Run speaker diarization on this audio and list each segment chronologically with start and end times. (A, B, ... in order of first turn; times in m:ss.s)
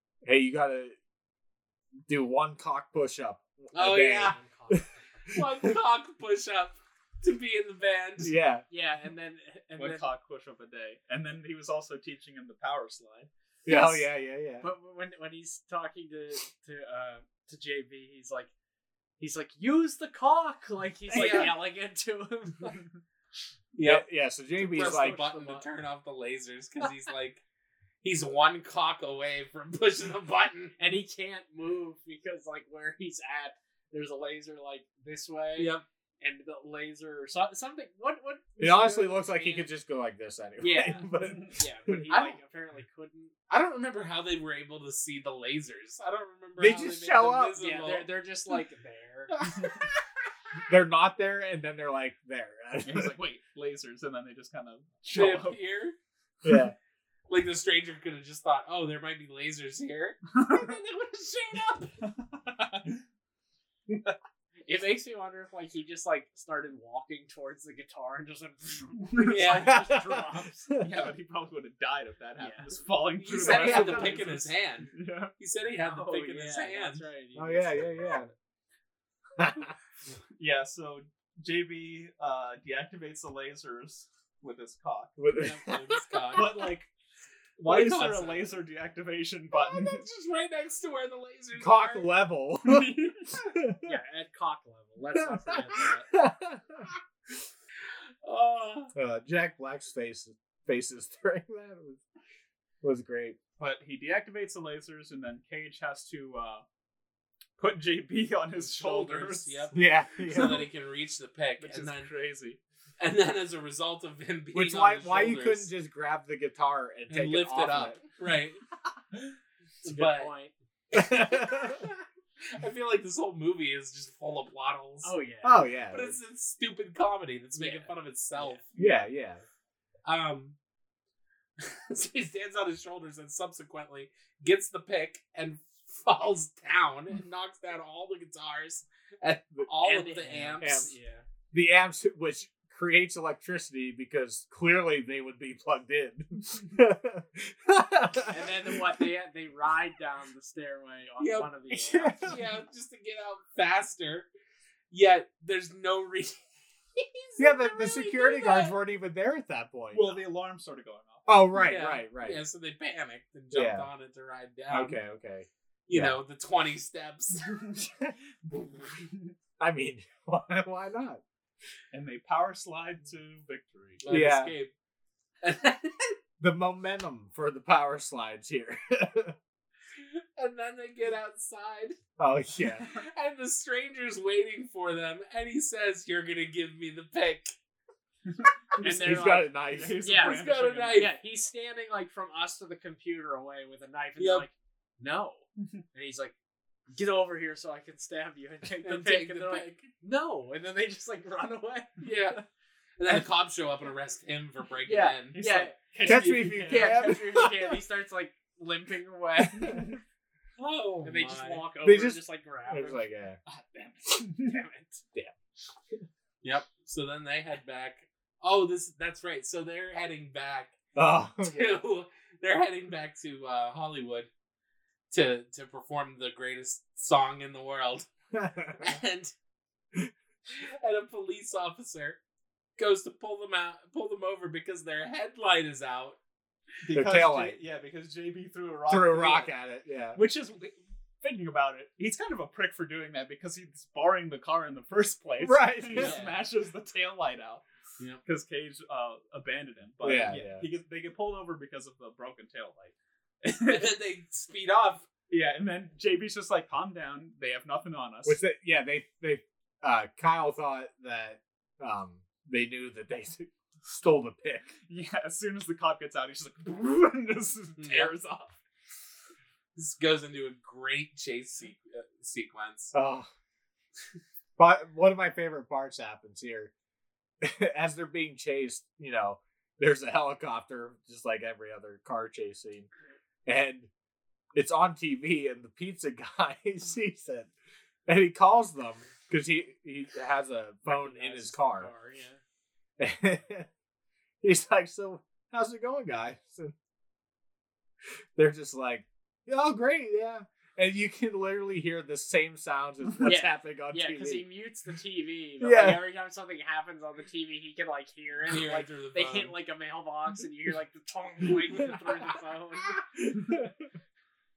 0:00.2-0:01.0 A
0:02.1-0:05.7 A
0:03.7-0:04.4 B
0:04.2-0:05.4 C
0:05.3-0:08.3 B
0:08.2-0:08.6 A
0:08.7-0:10.1 C
0:09.8-0:13.3 D
0:13.6-0:14.7 A
0:13.7-0:14.1 C
0:14.6-0:18.5 C
0:19.2-0:22.8 C
0:21.1-0:21.6 B
0:23.7-0:24.1 B
0:23.8-0:25.2 A
0:24.6-0:25.6 C
0:24.6-0:27.4 B
0:28.0-0:30.7 B
0:30.8-0:39.7 C
0:35.6-0:35.8 B
0:38.6-0:42.3 A
0:40.6-0:43.3 C
0:41.2-0:41.5 D
0:43.5-0:48.1 B
0:46.6-0:47.6 A
0:47.6-0:49.3 C
0:49.3-0:49.9 B
0:50.7-0:53.1 A
0:52.8-0:55.6 D
0:55.1-0:56.0 B
0:56.4-0:56.7 A
0:57.3-1:01.9 B
1:00.4-1:00.7 D
1:02.0-1:03.0 D
1:04.6-1:10.7 C
1:09.0-1:09.6 D
1:09.2-1:09.8 B
1:09.7-1:10.9 A
1:10.8-1:15.3 D
1:12.4-1:12.7 C
1:13.2-1:17.0 B
1:13.4-1:14.2 A
1:15.8-1:18.3 C
1:17.4-1:18.3 A
1:19.4-1:19.7 A
1:20.4-1:25.2 D
1:25.2-1:26.4 A
1:25.3-1:26.7 B
1:26.3-1:26.9 D
1:27.6-1:30.0 D
1:27.6-1:28.6 B
1:29.5-1:32.1 B
1:31.6-1:33.9 A
1:32.6-1:33.4 D
1:33.8-1:36.1 C
1:35.2-1:36.9 A
1:38.2-1:38.9 B
1:38.9-1:42.0 A
1:42.8-1:43.4 A
1:43.6-1:46.6 D
1:47.6-1:49.7 D
1:48.6-1:52.1 B
1:49.7-1:50.7 A
1:51.6-1:52.6 D
1:53.0-1:55.7 B
1:54.5-1:58.0 A
1:57.1-1:58.6 B
1:59.8-2:00.3 B
1:59.9-2:00.5 C
2:00.9-2:01.8 A
2:00.9-2:05.1 B
2:05.0-2:05.6 C
2:05.4-2:06.2 A
2:05.9-2:08.8 B
2:07.6-2:08.6 C
2:08.8-2:09.4 A
2:10.0-2:10.6 B
2:11.6-2:20.9 B
2:19.8-2:21.2 C
2:20.6-2:20.9 A
2:21.5-2:29.0 A
2:28.3-2:32.4 C
2:31.2-2:31.5 B
2:31.7-2:32.4 A
2:32.2-2:34.3 B
2:34.9-2:36.4 B
2:37.0-2:38.8 B
2:37.4-2:40.2 A
2:39.9-2:41.3 D
2:41.3-2:42.4 A
2:41.5-2:45.0 B
2:43.5-2:43.9 A
2:44.7-2:46.2 A
2:45.9-2:47.6 B
2:47.4-2:47.9 D
2:48.8-2:49.3 D
2:49.6-2:51.2 A
2:51.9-2:54.0 D
2:54.0-2:54.7 B
2:54.1-2:54.5 A
2:55.4-2:56.2 B
2:56.4-2:59.3 A
3:00.0-3:02.0 B
3:02.2-3:02.9 A
3:02.8-3:07.5 B
3:08.7-3:11.0 D
3:08.8-3:09.4 C
3:08.9-3:10.1 A
3:10.0-3:16.3 C
3:10.2-3:11.1 B
3:14.2-3:14.4 B
3:16.9-3:22.1 C
3:18.8-3:19.9 B
3:22.0-3:22.4 B
3:23.0-3:25.4 B
3:24.8-3:29.9 C
3:25.3-3:27.2 D
3:26.0-3:27.7 A
3:29.5-3:29.9 A
3:29.6-3:30.0 D
3:30.6-3:31.6 B
3:31.0-3:33.0 C
3:31.8-3:33.4 A
3:33.4-3:34.6 D
3:34.4-3:35.0 C
3:36.4-3:40.8 B
3:40.9-3:41.8 A
3:41.4-3:44.3 B
3:45.1-3:48.1 B
3:48.3-3:48.9 A
3:48.8-3:49.3 B
3:50.5-3:52.2 B
3:52.8-3:56.2 B
3:56.8-3:59.5 D
3:56.9-3:57.6 A
3:58.9-4:00.2 A
4:00.1-4:07.6 D
4:05.4-4:06.2 A
4:05.9-4:06.4 B
4:08.2-4:13.9 D
4:10.0-4:10.6 A
4:13.6-4:15.0 B
4:15.3-4:18.4 D
4:18.2-4:24.7 A
4:24.9-4:28.6 D
4:27.8-4:28.1 B
4:29.8-4:32.9 B
4:32.9-4:33.3 A
4:34.6-4:36.7 A
4:37.4-4:42.9 A
4:43.4-4:43.9 A
4:44.5-4:47.5 A
4:48.1-4:51.9 A
4:50.8-4:52.4 C
4:53.0-4:53.7 A
4:54.4-4:56.7 A
4:58.4-5:04.4 A
5:03.2-5:13.0 C
5:05.6-5:06.0 A
5:08.5-5:09.5 B
5:13.1-5:13.9 A